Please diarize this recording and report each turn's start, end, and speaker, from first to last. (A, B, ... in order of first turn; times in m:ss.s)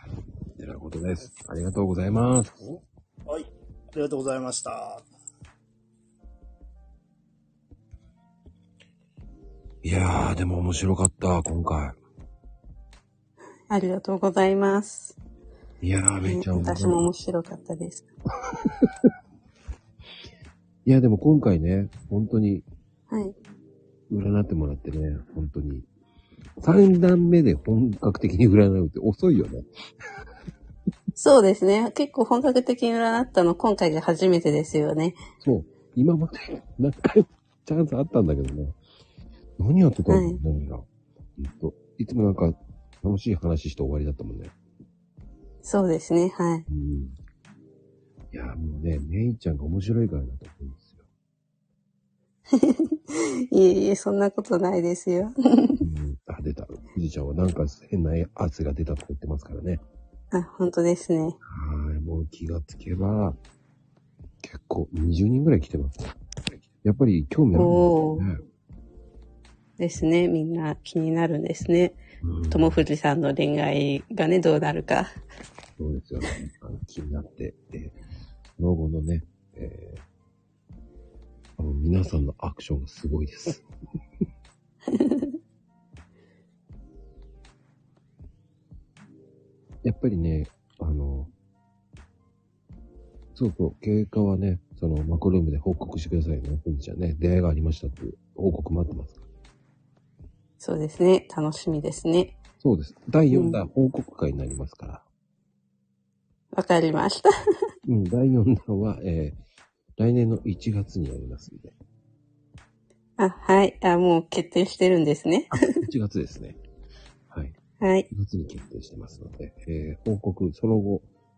0:00.5-0:02.6 A
0:02.7-0:05.0 B
0:09.8-0:12.0 A
0:13.7-0:15.2 C
0:15.8-0:17.0 A
0:16.2-0:18.0 C
0:20.8-0:22.6 A
0:23.1-0:23.3 C
0:24.1-0:25.9 A
0:26.6-0:29.6 A
0:31.2-0:35.2 C
0:35.4-0:38.8 A
0:39.6-0:40.8 A
0:40.1-0:40.4 C
0:41.4-0:44.5 A
0:45.6-0:46.6 C
0:46.7-0:47.2 A
0:48.3-0:51.0 A
0:52.5-0:55.8 C
0:55.8-0:59.8 A
1:00.3-1:01.4 C
1:01.4-1:03.4 A
1:04.4-1:08.4 A
1:07.5-1:08.2 C
1:09.8-1:15.1 C
1:12.2-1:12.8 A
1:15.8-1:18.0 A
1:18.6-1:20.0 A
1:21.6-1:23.6 A
1:24.9-1:25.3 C
1:29.8-1:31.3 A
1:33.3-1:39.2 A
1:40.6-1:42.4 C
1:42.6-1:45.0 A
1:43.3-1:43.6 C
1:46.5-1:47.3 C
1:47.8-1:49.4 A
1:50.0-1:51.7 A
1:53.2-1:55.6 C
1:55.5-1:56.6 A
1:57.8-1:58.1 C
1:58.1-2:01.0 A